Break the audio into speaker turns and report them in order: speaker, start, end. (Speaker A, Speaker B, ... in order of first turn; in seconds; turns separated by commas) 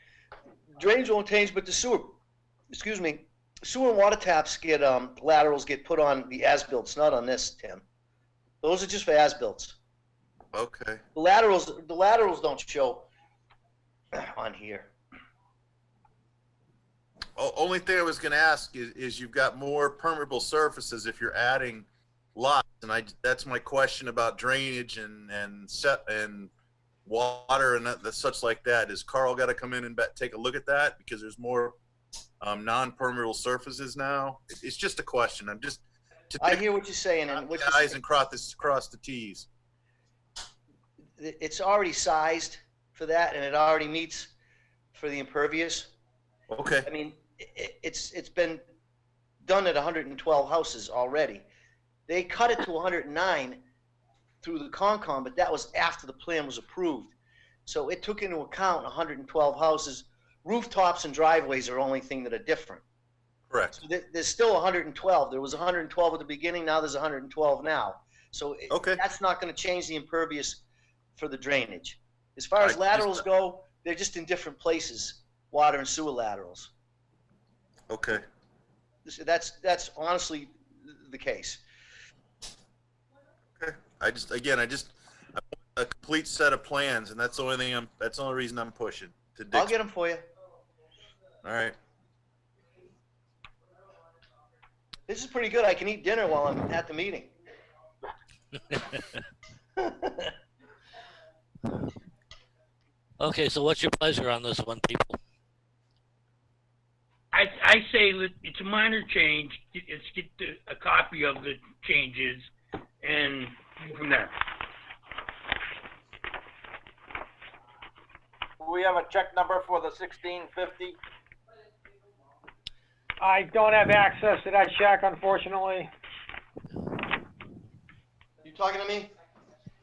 Speaker A: 0.8-2.2, Speaker A: 2.7-7.8, Speaker A: 8.6-9.8, Speaker B: 10.5-11.0, Speaker A: 11.2-13.1, Speaker A: 14.1-14.9, Speaker B: 17.4-26.5, Speaker B: 27.1-31.8, Speaker B: 32.4-36.6, Speaker A: 36.4-38.0, Speaker B: 37.4-39.5, Speaker A: 41.2-44.3, Speaker A: 44.9-45.9, Speaker B: 46.5-46.9, Speaker A: 46.9-48.6, Speaker A: 49.4-51.5, Speaker A: 52.1-53.6, Speaker A: 54.4-57.1, Speaker A: 57.7-62.8, Speaker B: 63.5-63.8, Speaker A: 63.8-70.6, Speaker B: 68.7-69.0, Speaker A: 71.2-76.7, Speaker B: 72.6-73.2, Speaker B: 77.9-78.2, Speaker A: 79.1-81.6, Speaker B: 83.6-89.7, Speaker A: 89.5-90.3, Speaker B: 91.4-91.8, Speaker A: 95.1-97.3, Speaker A: 99.8-100.3, Speaker C: 103.2-105.2, Speaker D: 107.3-112.5, Speaker D: 113.0-114.3, Speaker E: 118.6-121.0, Speaker F: 123.2-125.9, Speaker A: 128.4-129.1